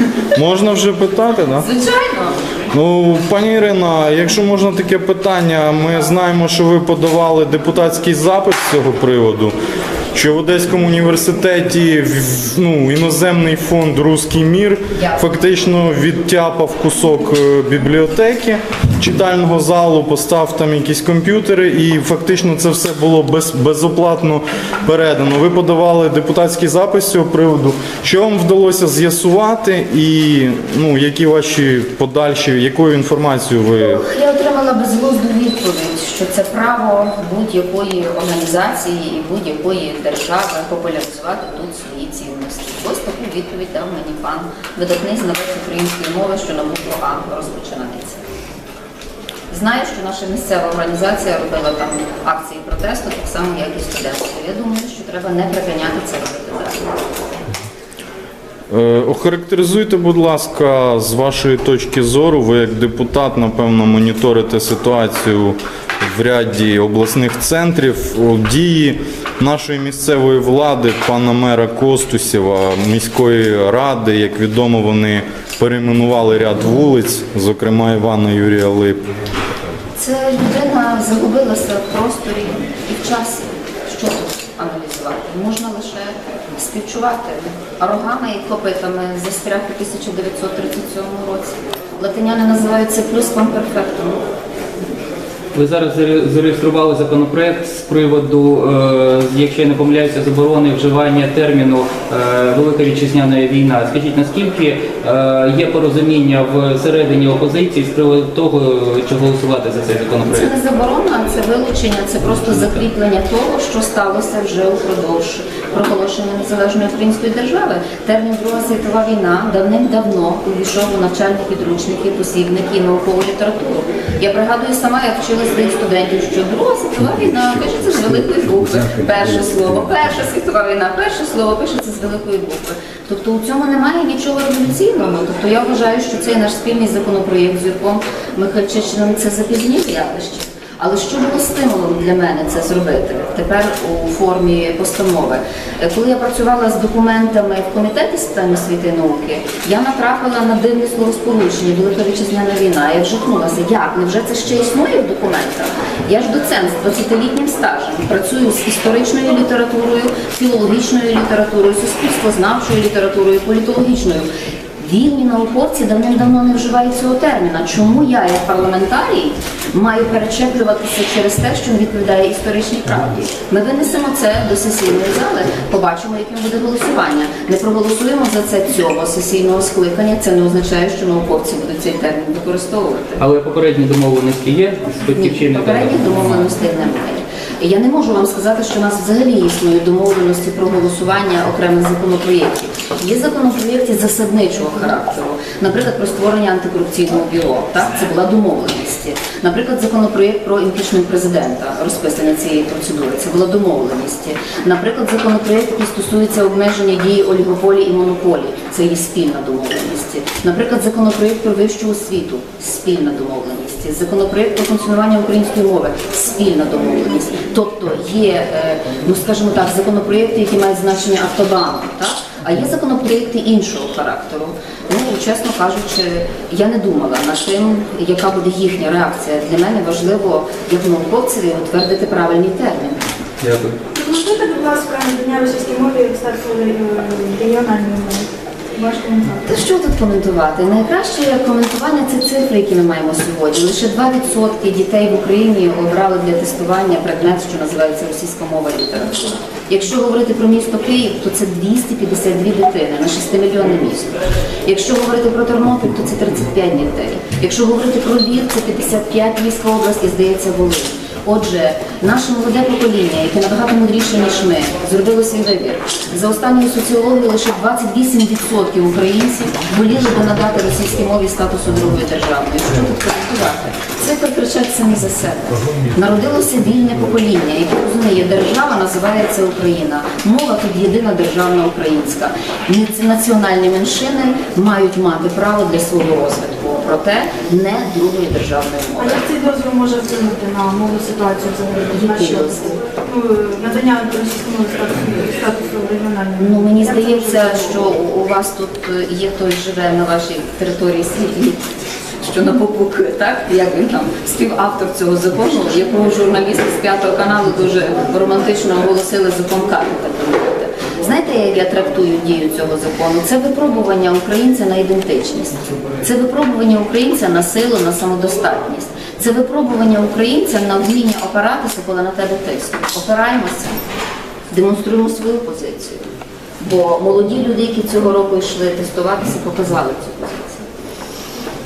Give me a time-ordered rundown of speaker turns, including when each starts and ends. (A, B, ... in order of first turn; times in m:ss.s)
0:00.4-0:01.7 A
0:01.6-0:02.4 B
0:02.7-0:09.5 A
0:10.1-0:34.0 A
0:33.8-0:48.2 B
0:49.5-0:57.0 B
0:58.7-1:19.0 A
1:20.0-1:34.2 B
1:35.5-1:50.5 C
1:50.3-2:44.3 B
2:44.8-3:03.2 B
3:03.2-3:06.3 C
3:05.2-3:53.0 B
3:53.4-3:53.7 C
3:53.9-3:59.5 D
3:59.4-4:49.3 B
4:49.0-4:57.8 D
4:51.9-4:52.8 B
4:56.4-5:01.6 B
5:02.2-5:23.8 B
5:24.5-5:26.1 B
5:26.6-5:30.6 B